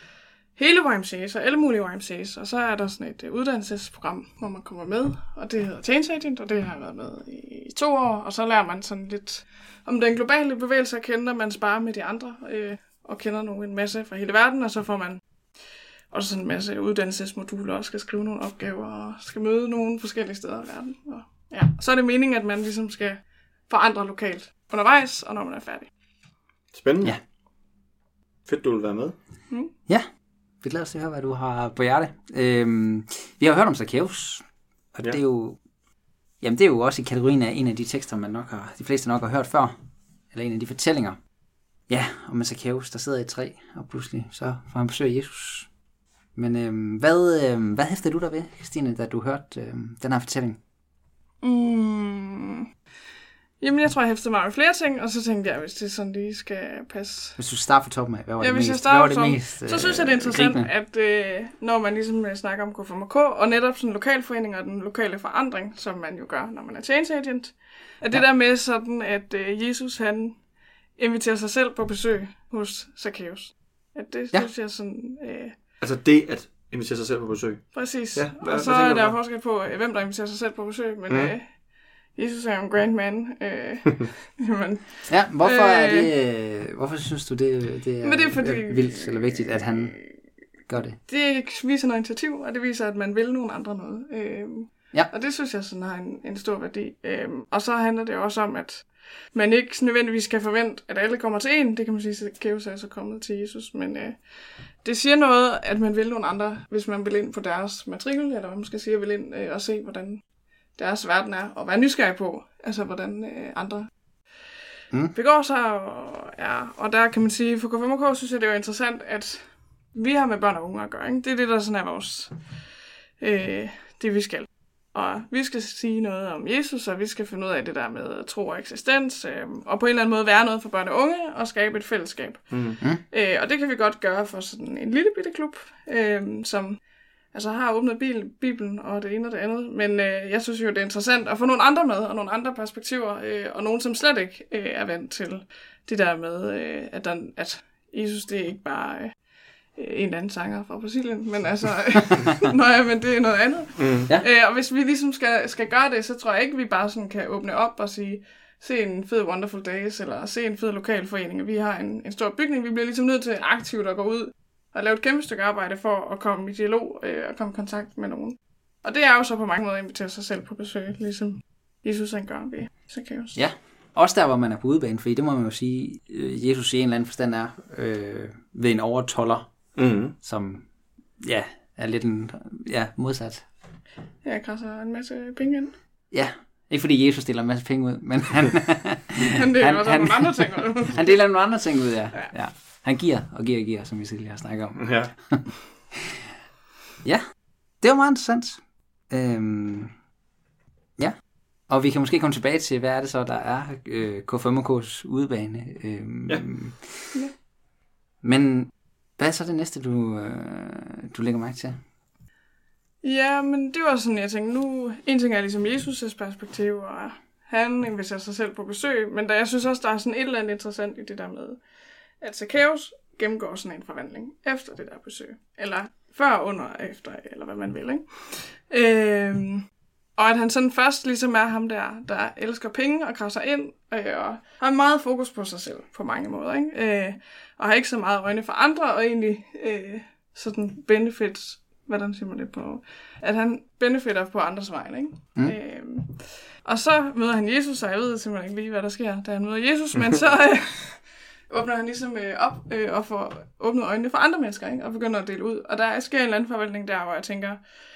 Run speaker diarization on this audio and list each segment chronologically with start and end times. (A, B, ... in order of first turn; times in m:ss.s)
0:00.6-0:15.2 A
0:16.1-0:25.9 A
0:26.7-0:27.2 B
0:28.5-0:29.2 B
0:30.6-0:35.6 C
0:36.4-0:39.7 C
0:40.3-0:41.2 C
0:41.9-0:45.7 C
0:46.4-0:50.6 C
0:51.4-0:52.7 A
0:53.6-0:57.4 A
0:57.4-1:00.7 C
0:58.4-1:10.4 A
1:11.0-1:15.6 A
1:15.8-1:19.2 B
1:17.7-1:21.6 A
1:21.1-1:21.3 B
1:22.2-1:26.1 A
1:25.1-1:30.1 C
1:28.0-1:30.0 A
1:30.7-1:31.0 C
1:31.1-1:44.2 A
1:44.8-1:50.2 A
1:50.8-1:53.9 A
1:55.1-2:02.4 A
2:03.2-2:16.8 A
2:12.5-2:12.8 B
2:17.3-2:29.2 A
2:29.8-2:53.4 A
2:33.8-2:34.1 B
2:53.4-2:59.5 C
2:59.8-3:00.1 B
3:00.2-3:00.7 C
3:01.2-3:03.5 C
3:04.2-3:05.8 A
3:06.1-3:15.5 C
3:09.3-3:11.1 A
3:14.8-3:15.1 B
3:17.8-3:19.9 C
3:21.7-3:27.1 C
3:28.2-3:31.8 C
3:33.0-3:41.6 A
3:42.2-3:49.7 A
3:50.2-4:17.6 A